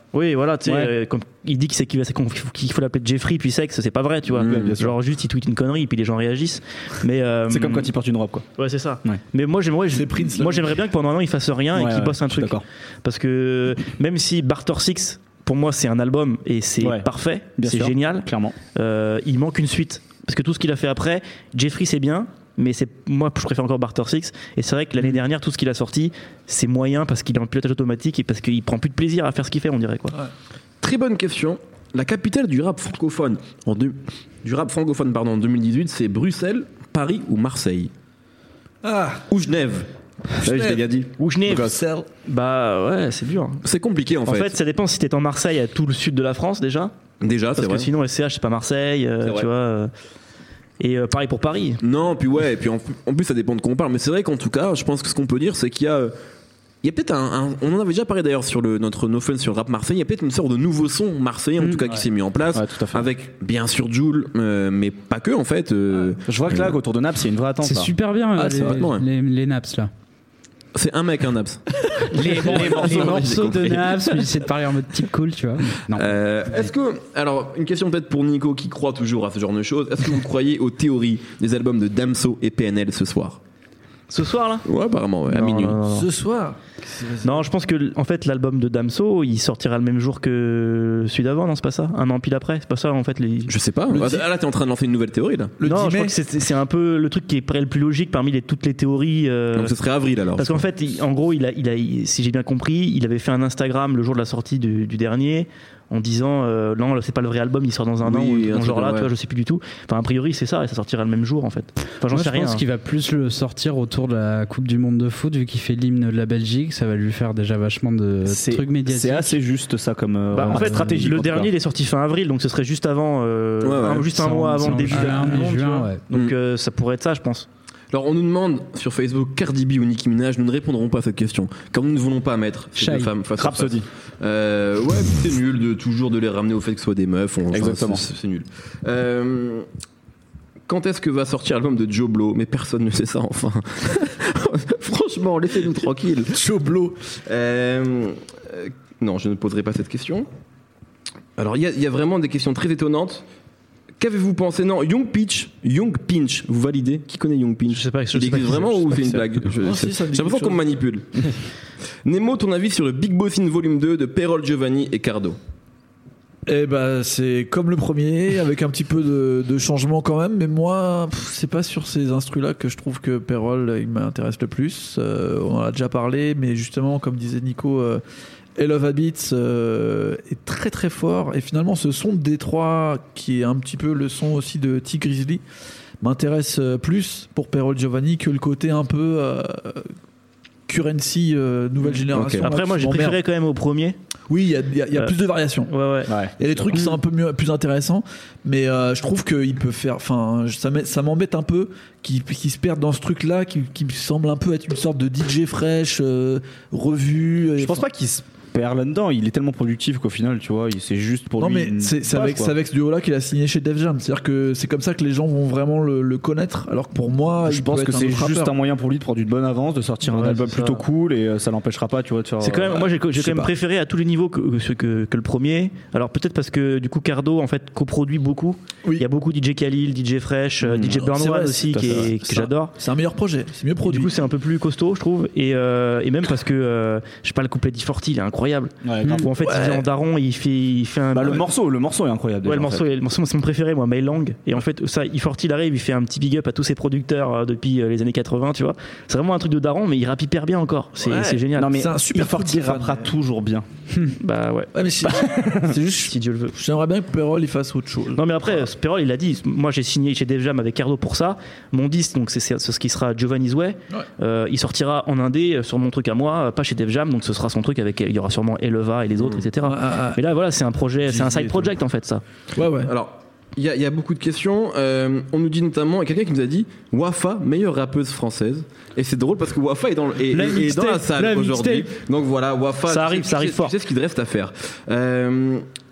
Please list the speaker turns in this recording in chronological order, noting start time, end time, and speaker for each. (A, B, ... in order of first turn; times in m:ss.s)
0:00.1-0:07.9 A
0:00.6-0:00.9 B
0:04.4-0:05.0 B
0:04.4-0:04.7 C
0:07.5-0:08.5 B
0:08.6-0:30.2 A
0:09.9-0:10.8 D
0:11.7-0:12.6 B
0:16.8-0:18.6 B
0:30.8-0:37.9 C
0:38.8-0:39.2 D
0:39.3-0:41.1 C
0:40.4-0:40.8 D
0:41.2-0:41.7 A
0:41.5-0:42.1 D
0:42.2-0:43.6 A
0:43.6-0:44.6 C
0:44.3-0:46.9 A
0:47.2-0:47.9 C
0:47.6-0:49.9 A
0:50.8-0:51.8 A
0:51.8-0:56.1 C
0:56.8-1:06.8 C
1:01.6-1:01.9 E
1:02.5-1:03.1 B
1:06.3-1:07.9 B
1:07.6-1:09.9 E
1:08.4-1:08.9 D
1:08.6-1:09.0 C
1:10.8-1:14.3 C
1:12.1-1:16.1 E
1:12.3-1:13.4 B
1:15.9-1:23.4 C
1:24.1-1:24.7 A
1:24.6-1:25.8 C
1:25.3-1:26.1 A
1:25.8-1:27.5 D
1:27.2-1:33.5 A
1:33.5-1:35.6 C
1:33.9-1:34.3 D
1:35.6-1:36.2 D
1:35.6-1:39.7 A
1:39.6-1:40.6 C
1:40.4-1:52.6 A
1:48.0-1:49.1 C
1:52.1-1:59.4 E
1:58.3-2:01.5 B
2:00.3-2:07.5 A
2:00.4-2:01.0 E
2:03.6-2:04.1 C
2:04.1-2:06.0 E
2:05.0-2:05.5 D
2:07.9-2:19.6 C
2:12.8-2:13.1 E
2:13.4-2:13.9 B
2:17.5-2:18.0 B
2:20.7-2:26.4 C
2:26.3-2:27.0 D
2:27.3-2:30.3 C
2:31.4-2:33.2 C
2:34.0-2:41.4 C
2:37.7-2:39.2 A
2:39.6-2:40.6 D
2:42.0-2:45.4 C
2:46.5-2:58.0 D
2:58.6-3:05.4 D
3:06.0-3:09.9 D
3:10.7-3:13.2 D
3:11.9-3:14.0 A
3:12.1-3:12.5 C
3:14.3-3:15.7 D
3:15.7-3:16.1 A
3:16.1-3:16.3 B
3:16.4-3:27.8 D
3:27.6-3:32.6 B
3:31.4-3:38.5 D
3:37.4-3:42.9 B
3:40.2-3:40.8 A
3:42.4-3:52.8 A
3:42.7-3:43.5 D
3:51.1-3:54.2 D
3:51.7-3:52.1 B
3:53.9-4:01.4 A
3:58.8-3:59.3 B
3:59.4-3:59.8 D
4:01.1-4:02.8 B
4:02.4-4:11.8 A
4:11.0-4:13.1 D
4:11.6-4:13.6 B
4:14.2-4:14.7 A
4:14.7-4:18.6 D
4:15.1-4:15.8 B
4:16.0-4:16.5 A
4:18.2-4:32.2 A
4:29.6-4:30.2 D
4:31.1-4:31.7 D
4:32.6-4:32.9 D
4:32.8-4:45.6 C
4:40.3-4:41.9 E
4:42.9-4:43.7 A